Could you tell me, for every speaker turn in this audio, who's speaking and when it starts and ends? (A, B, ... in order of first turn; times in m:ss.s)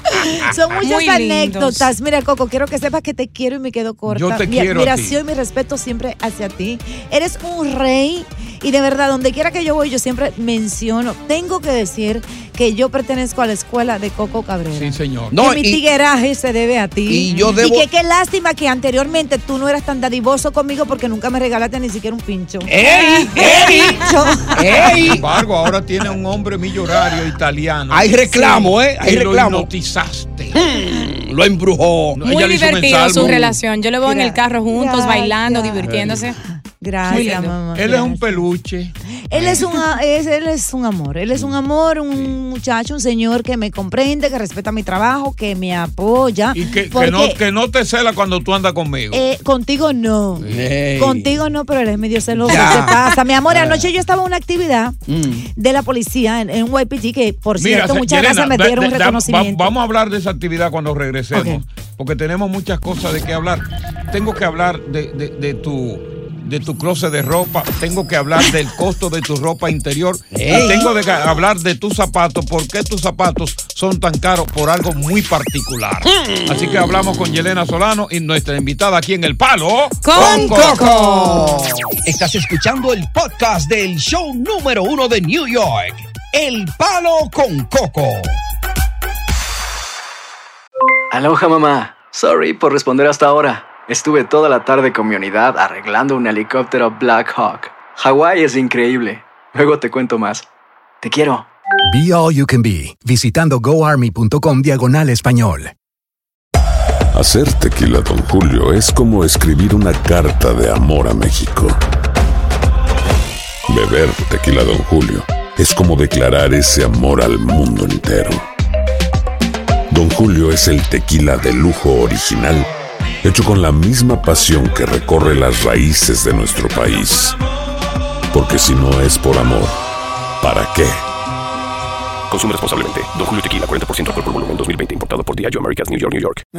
0:00.4-0:24.6 A
0:00.8-0:01.9 B
0:04.1-0:05.2 C
0:14.7-0:15.4 C
0:15.3-0:15.8 D
0:17.1-0:17.9 D
0:22.7-0:25.2 D
0:24.9-0:30.6 C
0:27.9-0:29.7 D
0:30.6-0:32.2 D
0:32.2-0:33.6 C
0:32.2-0:36.4 B
0:34.0-0:35.9 A
0:35.8-0:36.3 D
0:36.6-0:38.4 A
0:37.1-0:37.6 B
0:37.1-0:39.5 C
0:39.3-0:47.4 A
0:46.5-0:49.2 C
0:49.1-0:55.0 A
0:50.4-0:50.8 C
0:50.5-0:51.4 D
0:52.3-0:53.9 D
0:55.1-0:55.5 D
0:55.5-0:59.7 A
0:57.6-1:20.8 C
1:01.3-1:01.6 A
1:10.3-1:10.9 D
1:16.1-1:16.9 D
1:20.0-1:21.7 B
1:20.2-1:28.4 D
1:31.1-1:40.5 E
1:41.0-1:41.5 E
1:41.9-1:45.7 F
1:47.1-1:51.8 G
1:53.7-1:58.4 G
1:59.9-2:02.7 G
2:03.2-2:07.4 G
2:08.3-2:09.8 G
2:10.4-2:11.0 G
2:12.3-2:16.4 H